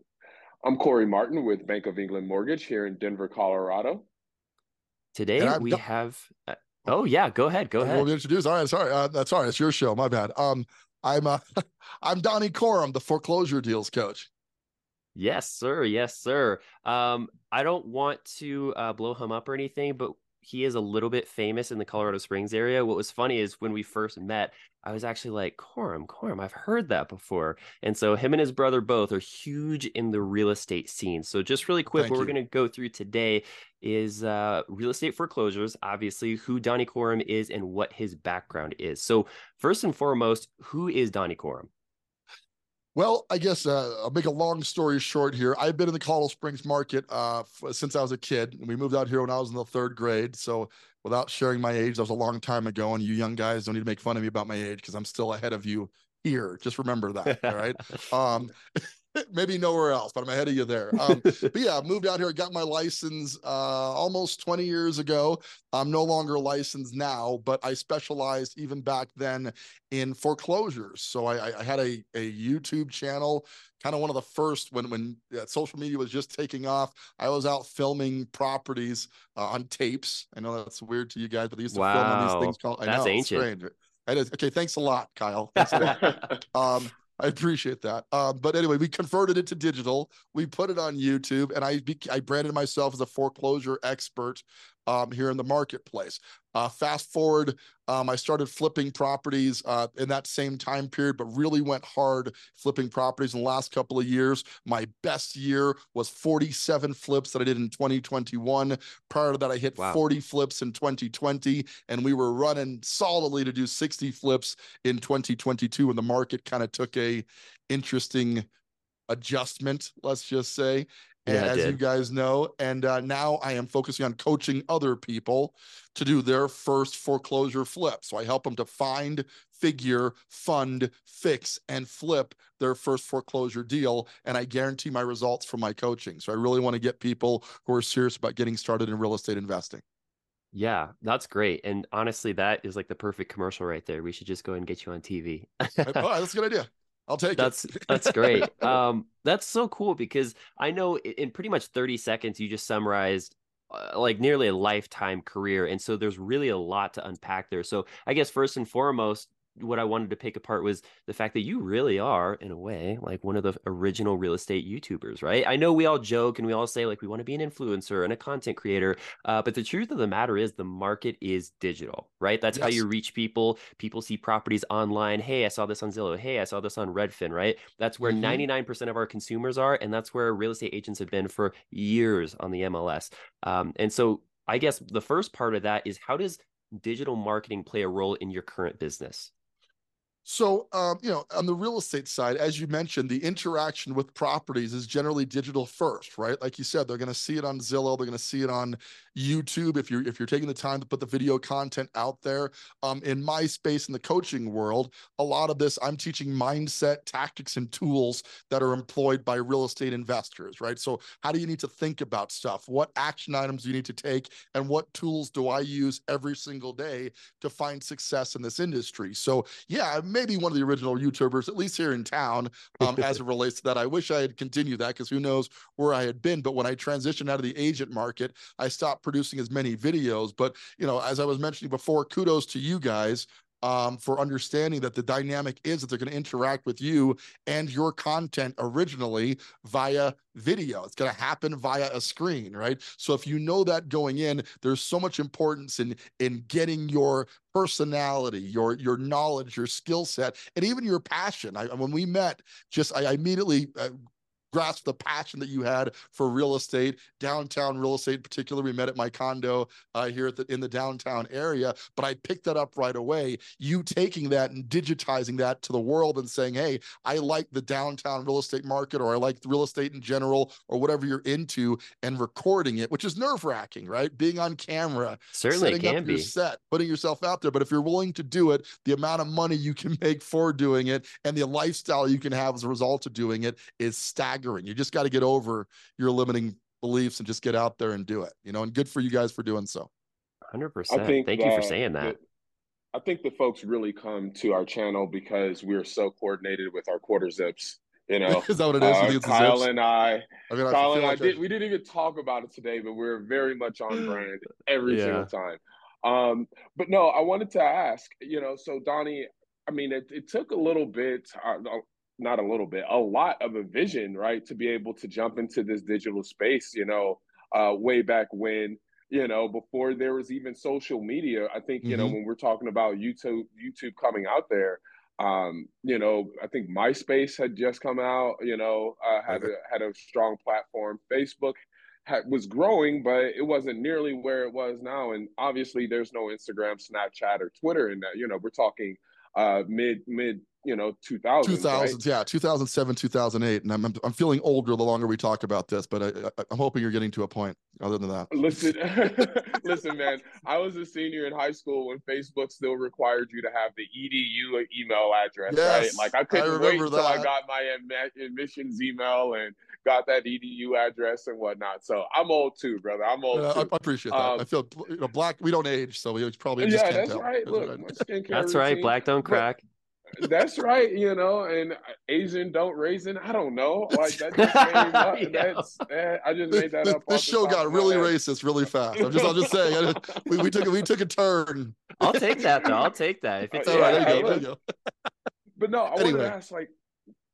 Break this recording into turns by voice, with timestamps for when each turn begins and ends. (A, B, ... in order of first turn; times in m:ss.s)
0:00.6-0:04.0 A
0:05.2-0:08.1 B
0:05.4-0:05.8 C
0:07.8-0:11.4 C
0:12.0-0:14.3 C
0:15.2-0:41.7 B
0:31.9-0:32.3 C
0:43.0-1:58.5 C
0:57.3-0:57.6 B
1:01.0-1:01.5 B
1:21.7-1:23.5 B
1:25.6-1:26.2 B
1:49.8-1:50.0 B
1:59.1-2:19.8 C
2:01.3-2:01.8 B
2:20.5-2:26.1 B
2:25.9-2:28.8 C
2:27.4-3:09.3 B
2:52.5-2:52.8 C
2:58.0-2:58.4 C
3:10.3-4:14.0 C
4:14.5-4:49.9 C
4:35.3-4:36.3 B
4:50.5-4:52.2 B
4:50.9-4:52.2 A
4:52.9-5:42.0 A
4:58.3-4:59.7 C
5:00.5-5:01.4 C
5:04.8-5:05.3 B
5:21.8-5:22.2 C
5:41.4-5:49.3 C
5:48.3-6:04.4 A
5:55.5-5:57.3 C
6:03.3-6:08.0 C
6:06.6-6:09.4 A
6:08.3-6:09.6 B
6:10.2-6:18.2 A
6:13.9-6:14.8 C
6:14.4-6:15.8 B
6:16.5-6:22.6 C
6:18.9-6:20.7 A
6:22.0-6:24.4 B
6:23.5-6:24.4 A
6:23.6-6:24.6 C
6:25.6-6:26.7 A
6:25.9-6:26.4 C